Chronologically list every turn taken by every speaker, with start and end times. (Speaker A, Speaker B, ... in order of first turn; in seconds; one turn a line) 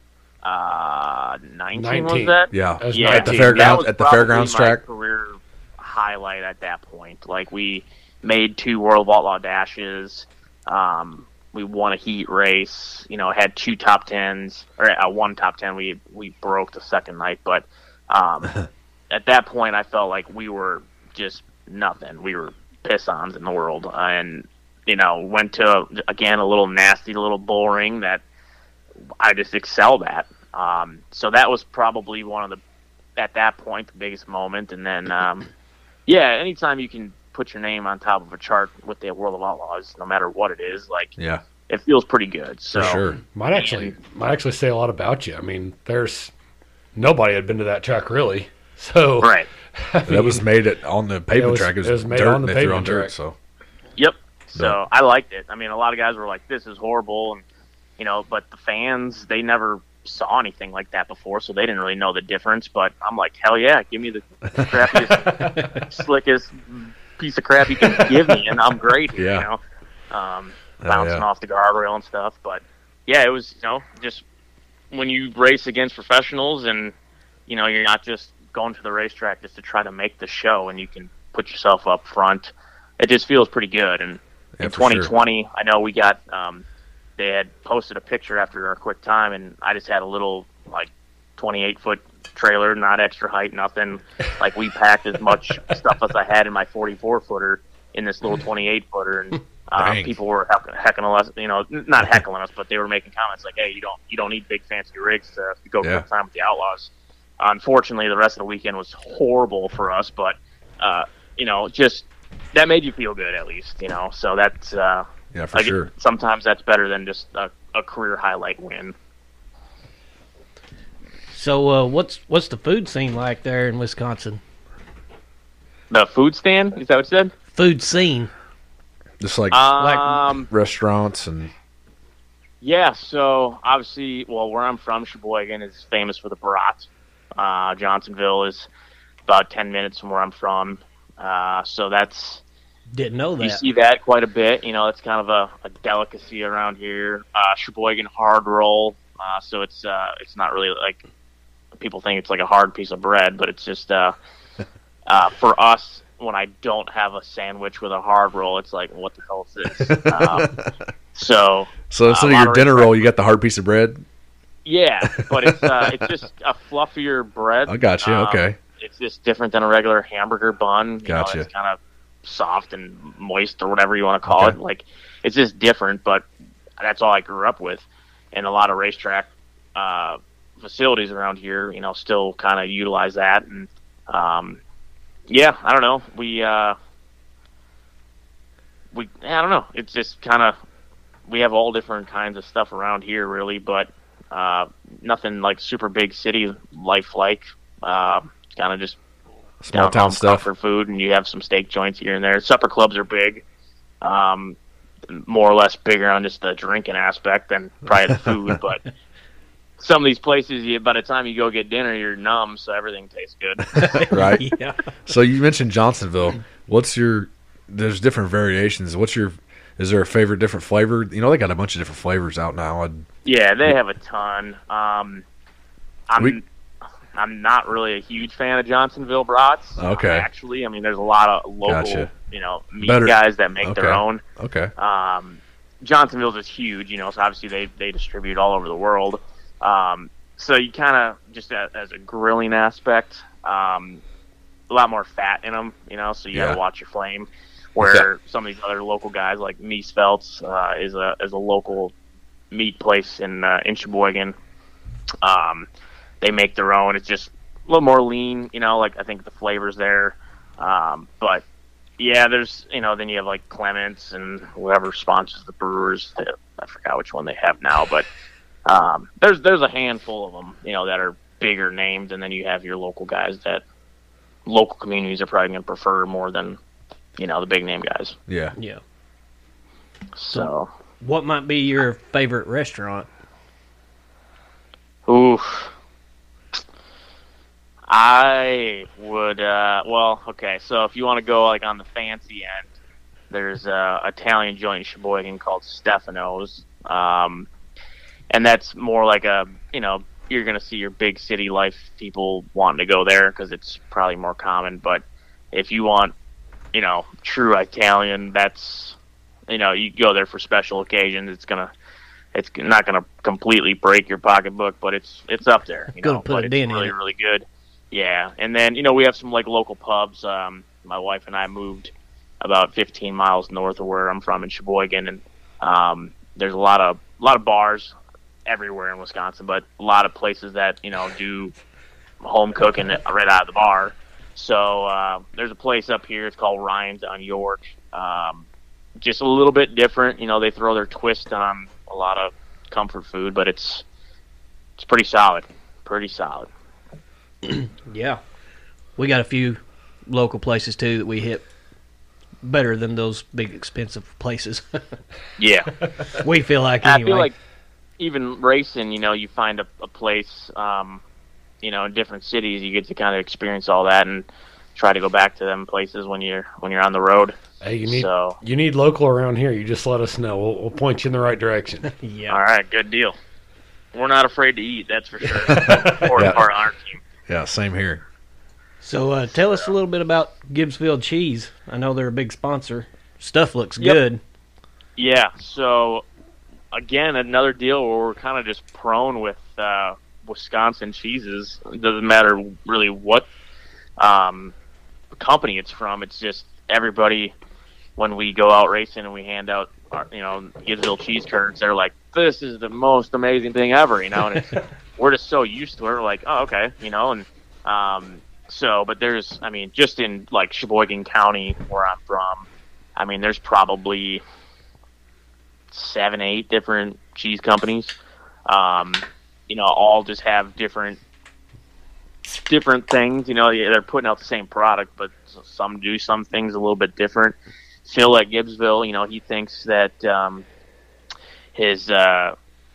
Speaker A: 0.4-28.2
Speaker B: 1.7-3.8
Speaker C: 2.5-4.8
Speaker A: 29.2-32.6
Speaker A: 33.1-35.5
Speaker A: 36.1-41.1
Speaker C: 41.2-41.4
Speaker A: 41.7-43.0
Speaker C: 42.7-43.2
Speaker B: 42.7-46.3
Speaker A: 43.5-43.9
Speaker B: 46.9-50.4
Speaker A: 49.2-49.5
Speaker C: 50.1-53.4
Speaker B: 51.3-53.1
Speaker A: 54.0-57.4
Speaker A: 58.0-74.2
Speaker C: 69.2-69.5
Speaker C: 70.8-71.2
Speaker A: 74.9-76.9
Speaker A: 77.5-86.6
Speaker C: 84.6-85.1
Speaker A: 87.2-118.9
Speaker C: 99.8-100.2
Speaker C: 115.3-115.9
Speaker D: 121.3-124.4
Speaker A: 125.9-127.3
Speaker D: 127.5-128.3
Speaker C: 129.2-129.7
Speaker A: 129.5-130.5
Speaker D: 129.8-130.2
Speaker C: 130.5-131.5
Speaker A: 132.6-138.7
Speaker A: 139.2-142.4
Speaker D: 142.9-143.6
Speaker A: 143.4-151.0
Speaker A: 151.8-154.1
Speaker A: 155.1-160.6
Speaker C: 159.8-160.5
Speaker A: 161.1-162.9
Speaker C: 161.9-164.0
Speaker A: 164.6-176.3
Speaker C: 165.1-166.1
Speaker C: 167.7-168.6
Speaker C: 171.0-171.5
Speaker C: 174.3-174.6
Speaker A: 176.8-184.6
Speaker A: 185.3-186.8
Speaker A: 188.9-190.6
Speaker A: 191.3-199.0
Speaker C: 199.6-200.5
Speaker A: 199.7-203.4
Speaker A: 204.0-204.6
Speaker A: 205.1-208.8
Speaker A: 209.8-214.2
Speaker D: 213.8-214.9
Speaker C: 214.1-214.4
Speaker C: 215.1-223.1
Speaker A: 223.2-225.2
Speaker A: 226.1-226.4
Speaker A: 227.1-234.2
Speaker C: 229.8-230.3
Speaker C: 231.6-232.1
Speaker C: 232.8-234.7
Speaker A: 234.8-244.0
Speaker A: 244.7-251.9
Speaker C: 246.3-246.6
Speaker C: 247.8-248.1
Speaker A: 252.5-254.3
Speaker A: 255.2-255.7
Speaker A: 256.2-261.4
Speaker A: 262.0-268.1
Speaker A: 268.6-273.6
Speaker A: 274.4-276.6
Speaker A: 277.2-278.1
Speaker C: 278.3-278.5
Speaker D: 278.6-278.8
Speaker A: 280.1-280.7
Speaker D: 281.0-283.1
Speaker A: 285.1-285.7
Speaker A: 287.9-292.7
Speaker A: 293.3-297.5
Speaker A: 298.3-306.1
Speaker A: 306.7-309.0
Speaker A: 309.5-311.7
Speaker A: 312.3-327.9
Speaker D: 316.0-316.9
Speaker A: 328.4-331.5
Speaker A: 332.2-338.5
Speaker A: 339.0-343.8
Speaker A: 344.8-346.5
Speaker D: 347.4-348.2
Speaker D: 349.0-351.4
Speaker D: 352.4-354.8
Speaker A: 355.4-355.8
Speaker D: 356.2-357.3
Speaker A: 356.8-357.3
Speaker A: 358.0-361.0
Speaker A: 361.6-368.4
Speaker B: 367.6-371.9
Speaker D: 371.8-372.4
Speaker A: 372.3-373.2
Speaker A: 373.9-377.0
Speaker B: 375.5-376.1
Speaker C: 375.6-376.4
Speaker C: 377.3-378.0
Speaker D: 378.8-384.2
Speaker A: 385.0-386.0
Speaker A: 386.7-393.3
Speaker A: 394.0-394.5
Speaker A: 395.1-397.3
Speaker A: 398.0-414.2
Speaker A: 415.7-421.0
Speaker A: 422.3-430.4
Speaker A: 431.5-432.4